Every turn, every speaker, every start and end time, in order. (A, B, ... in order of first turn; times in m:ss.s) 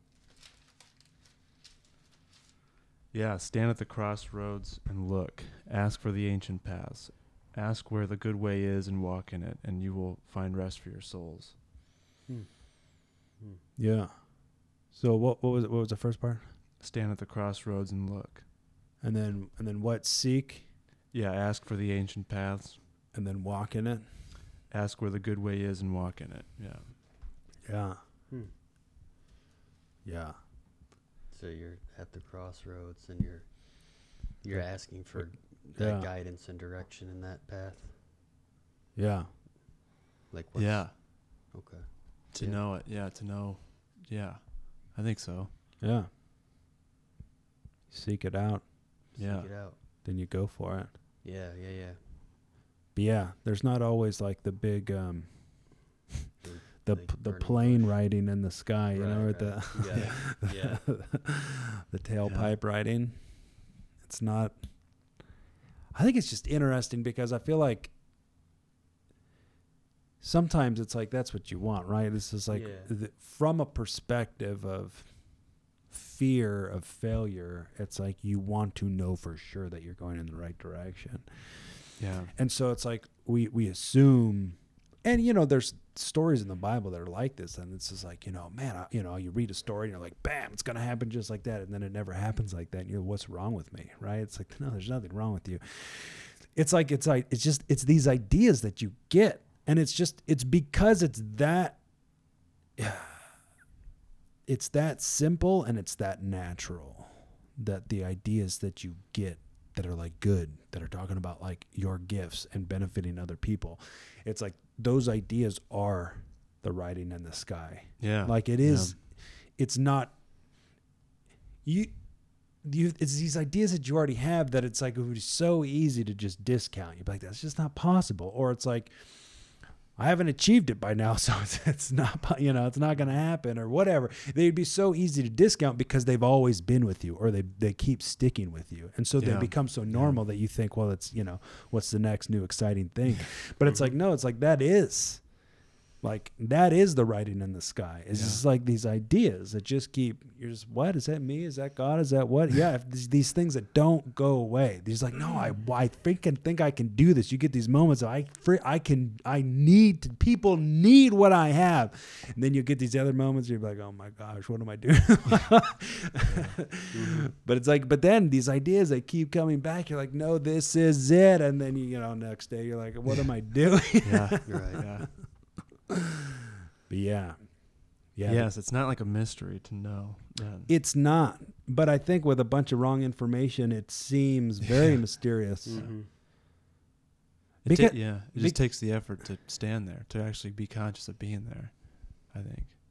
0:03.1-0:11.6 A
0:12.3-0:13.6 B
0:13.8-0:16.5 C
0:16.8-0:18.4 A
0:19.0-0:20.7 C
0:21.1-0:22.8 A
0:23.1-0:24.1 C
0:24.7-0:27.0 A
0:27.6-0:28.0 C
0:30.0-0:30.4 C
0:31.3-0:38.0 B
0:34.5-0:36.1 C
0:38.9-0:39.3 C
0:40.3-0:42.6 B
0:40.5-0:40.9 A
0:42.3-0:45.5 A
0:45.8-0:46.1 C
0:47.9-0:48.7 C
0:49.1-0:49.8 B
0:49.2-0:49.5 A
0:50.0-0:50.9 C
0:51.2-0:52.0 B
0:52.9-0:56.0 C
0:56.4-0:58.1 B
0:56.8-1:05.2 C
0:58.9-1:00.8 B
1:02.2-1:02.5 A
1:05.9-1:07.9 C
1:10.2-1:41.8 C
1:12.5-1:12.9 B
1:22.0-1:22.3 A
1:42.8-1:43.4 C
1:44.4-2:00.2 C
1:58.0-1:59.0 A
2:01.6-2:55.3 C
2:19.2-2:20.2 A
2:23.6-2:23.9 B
2:28.1-2:28.4 A
2:46.3-2:47.3 B
2:54.0-2:55.5 A
2:54.4-2:54.8 B
2:56.9-2:58.5 C
2:58.2-3:00.7 A
3:00.7-3:06.0 C
3:05.6-3:06.1 B
3:05.7-3:05.9 A
3:07.6-3:12.7 A
3:07.6-3:09.0 C